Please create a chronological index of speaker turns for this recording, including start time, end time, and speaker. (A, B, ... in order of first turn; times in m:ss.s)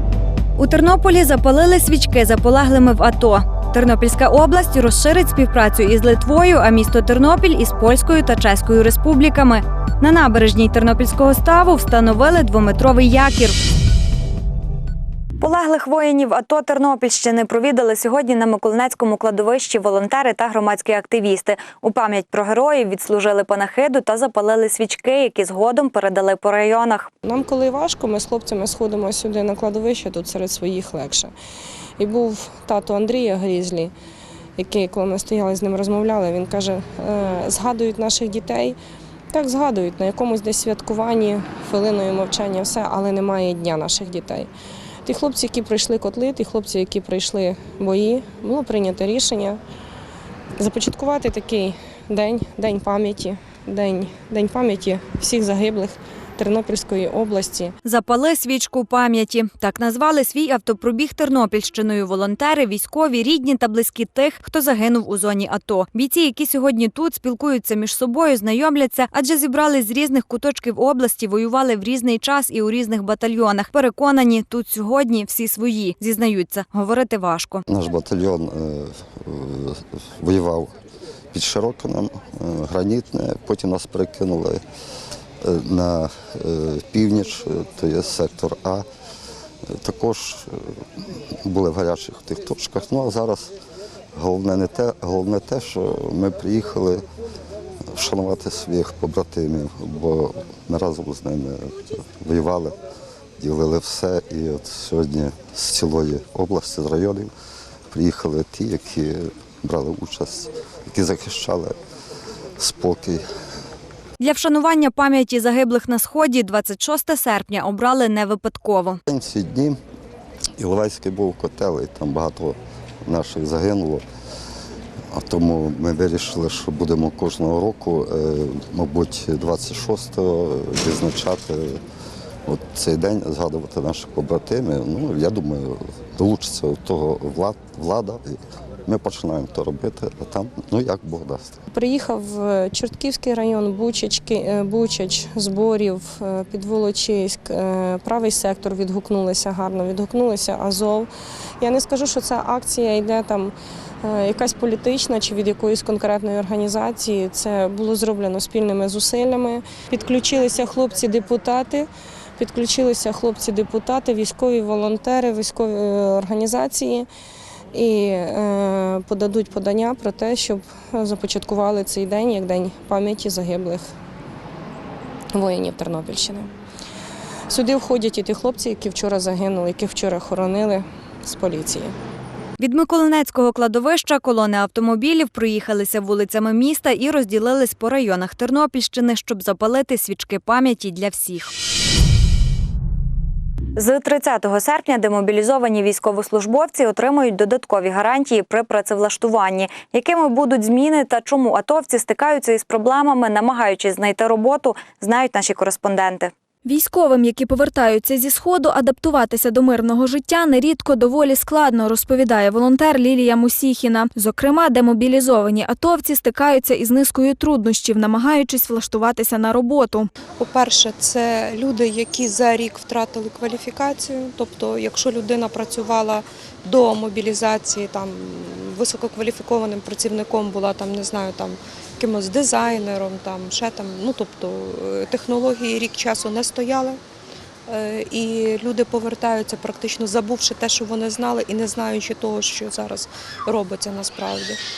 0:00.6-0:13.5 A
0:15.4-0:27.1 A
0:27.2-0:31.3 B
0:32.0-0:33.9 B
0:34.6-0:38.8 B
0:39.3-0:44.5 B
0:45.0-0:49.6 B
0:50.6-0:57.7 B
0:57.8-1:17.6 A
1:17.7-1:20.7 C
1:21.3-1:24.6 C
1:25.4-1:28.8 C
1:29.7-1:30.7 C
1:31.4-1:33.5 C
1:34.1-1:37.0 C
1:37.9-1:42.7 C
1:43.4-1:47.3 C
1:47.9-1:51.7 C
1:52.6-1:53.2 C
1:54.2-1:59.0 A
1:59.1-1:59.8 C
2:00.6-2:04.0 C
2:05.1-2:11.8 C
2:12.4-2:21.6 C
2:21.7-2:33.5 B
2:34.0-2:47.1 B
2:47.7-2:53.9 B
2:55.3-2:56.5 B
2:57.5-3:01.9 B
3:02.6-3:11.5 A
3:13.8-3:26.3 A
3:26.6-3:40.1 D
3:40.4-3:57.0 E
3:57.7-4:04.6 E